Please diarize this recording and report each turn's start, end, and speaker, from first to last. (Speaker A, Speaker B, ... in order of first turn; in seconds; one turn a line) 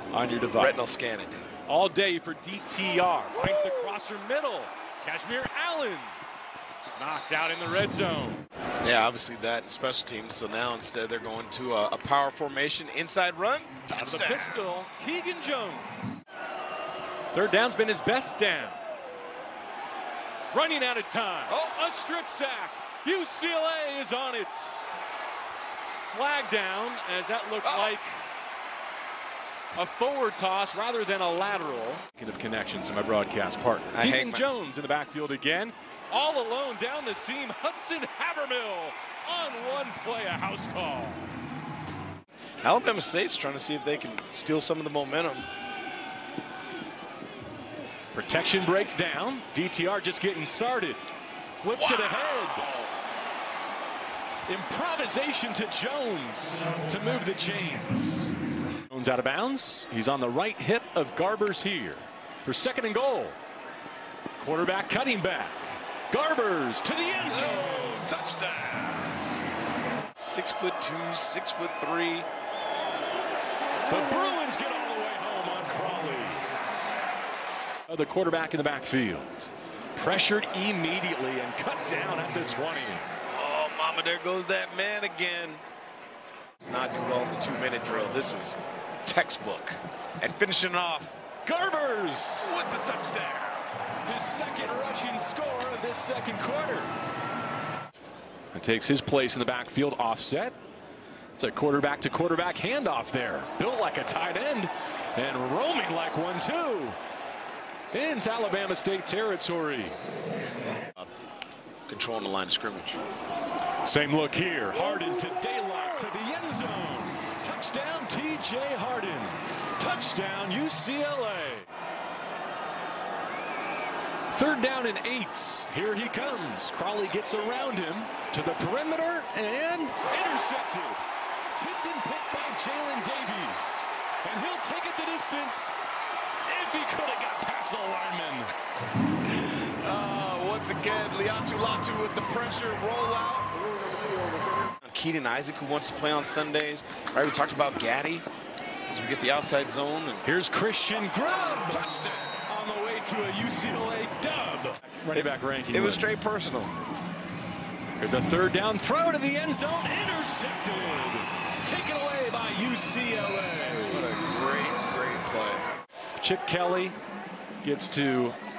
Speaker A: 0.1-0.8
Speaker B: 0.6-1.3
Speaker A: 1.7-6.2
Speaker B: 3.4-3.9
Speaker A: 7.0-8.4
Speaker B: 8.8-14.6
Speaker A: 13.9-16.1
Speaker A: 17.3-18.8
Speaker A: 20.5-24.9
Speaker A: 26.1-28.2
Speaker B: 27.6-27.9
Speaker A: 29.8-41.3
Speaker B: 33.9-34.5
Speaker B: 42.6-45.5
Speaker A: 48.1-51.0
Speaker A: 51.5-52.7
Speaker B: 51.7-52.9
Speaker A: 54.5-58.4
Speaker A: 58.9-63.4
Speaker A: 64.4-68.1
Speaker B: 67.2-69.1
Speaker B: 70.2-72.3
Speaker A: 73.9-76.4
Speaker A: 77.9-79.3
Speaker A: 80.0-83.1
Speaker B: 83.3-85.6
Speaker B: 86.6-91.2
Speaker A: 91.4-92.5
Speaker B: 92.4-93.7
Speaker A: 94.0-96.9
Speaker A: 98.5-100.5
Speaker A: 101.4-107.0
Speaker A: 107.9-110.0
Speaker B: 111.9-113.0
Speaker A: 113.8-121.7
Speaker A: 124.3-131.0
Speaker A: 131.6-135.8
Speaker A: 136.5-138.5
Speaker B: 139.4-143.7
Speaker B: 144.8-148.2
Speaker B: 148.9-150.2
Speaker A: 150.2-151.9
Speaker B: 151.6-152.4
Speaker A: 152.5-156.1
Speaker B: 155.1-156.7
Speaker A: 158.0-164.1
Speaker B: 163.9-165.7
Speaker A: 166.2-167.0
Speaker A: 167.6-168.4